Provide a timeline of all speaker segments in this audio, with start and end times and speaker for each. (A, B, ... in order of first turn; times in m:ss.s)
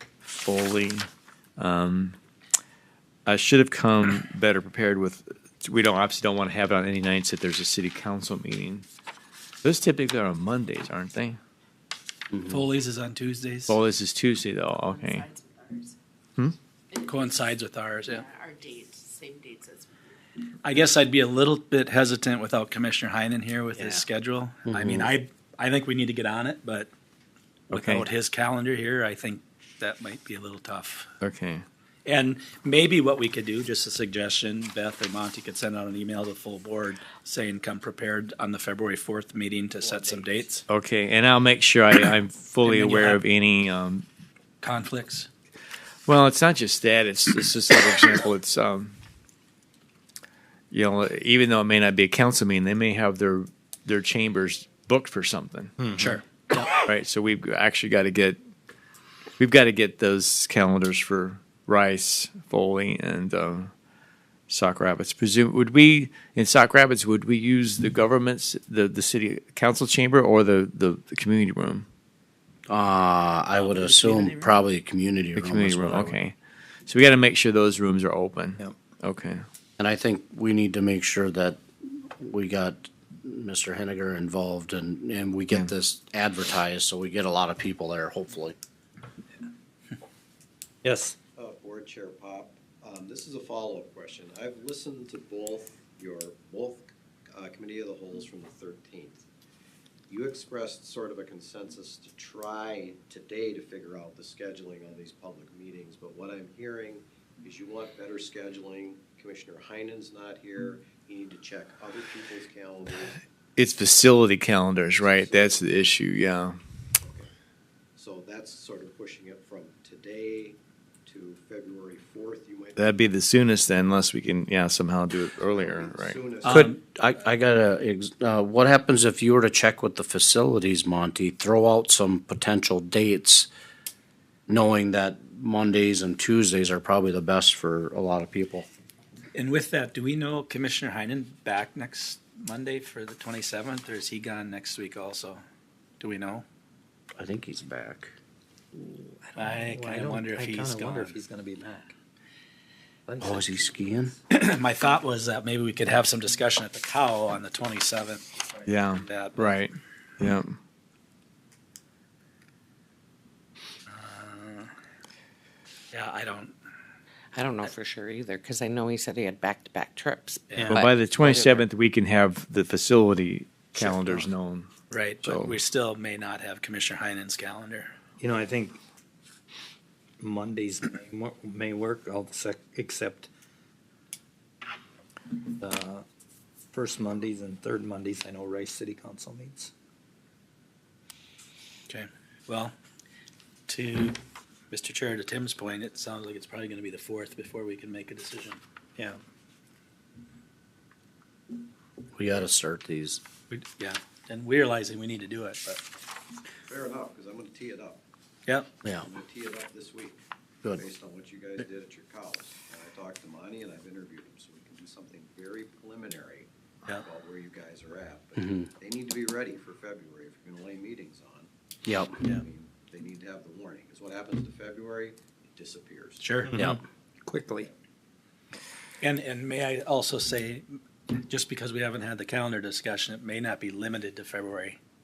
0:00.2-0:01.0 A
0:01.6-0:02.2 A
0:03.2-0:08.8 A
0:09.6-0:11.4 A
0:12.4-0:13.8 B
0:13.7-0:15.3 A
0:14.7-0:15.9 C
0:16.9-0:17.3 C
0:17.0-0:18.2 B
0:18.1-0:20.1 C
0:20.6-0:26.9 B
0:24.7-0:25.1 D
0:27.7-0:31.1 B
0:27.7-0:28.0 A
0:31.2-0:31.6 A
0:32.0-0:40.6 B
0:40.7-0:44.0 A
0:42.6-0:43.2 B
0:44.6-0:45.3 B
0:46.0-0:49.0 A
0:50.7-0:55.7 A
0:55.8-0:56.1 E
0:56.0-0:56.8 B
0:56.8-0:58.4 A
0:59.4-1:03.7 A
1:04.5-1:11.9 A
1:12.7-1:16.1 D
1:13.5-1:14.3 B
1:15.4-1:16.4 A
1:16.9-1:19.4 A
1:19.8-1:28.6 D
1:30.8-1:31.2 E
1:31.4-1:39.2 F
1:40.1-1:53.2 F
1:53.6-1:56.6 A
1:55.0-1:55.6 F
1:57.0-1:57.3 F
1:58.0-2:02.9 F
2:02.8-2:06.2 A
2:05.5-2:06.7 F
2:06.4-2:06.8 B
2:06.4-2:13.5 D
2:14.5-2:18.7 D
2:19.3-2:25.4 B
2:26.0-2:26.4 B
2:27.2-2:28.1 D
2:28.7-2:31.9 E
2:29.4-2:31.2 B
2:33.1-2:33.8 E
2:33.2-2:34.1 D
2:34.3-2:38.2 B
2:38.6-2:40.5 A
2:39.0-2:39.5 B
2:43.9-2:44.7 B
2:45.9-2:46.5 B
2:47.3-2:51.6 G
2:50.5-2:50.8 B
2:50.7-2:54.7 A
2:53.8-2:54.2 B
2:54.9-2:57.9 B
2:55.2-2:55.5 A
2:58.2-2:58.8 E
3:00.2-3:03.3 E
3:05.6-3:06.0 E
3:06.7-3:09.7 E
3:11.9-3:12.7 B
3:13.7-3:14.2 B
3:14.7-3:18.6 B
3:22.1-3:23.2 D
3:23.5-3:25.8 B
3:26.7-3:28.0 F
3:28.9-3:30.2 F
3:30.7-3:41.5 F
3:41.8-3:42.2 D
3:42.1-3:46.4 F
3:46.2-3:46.6 B
3:46.5-3:47.7 E
3:49.0-3:54.8 B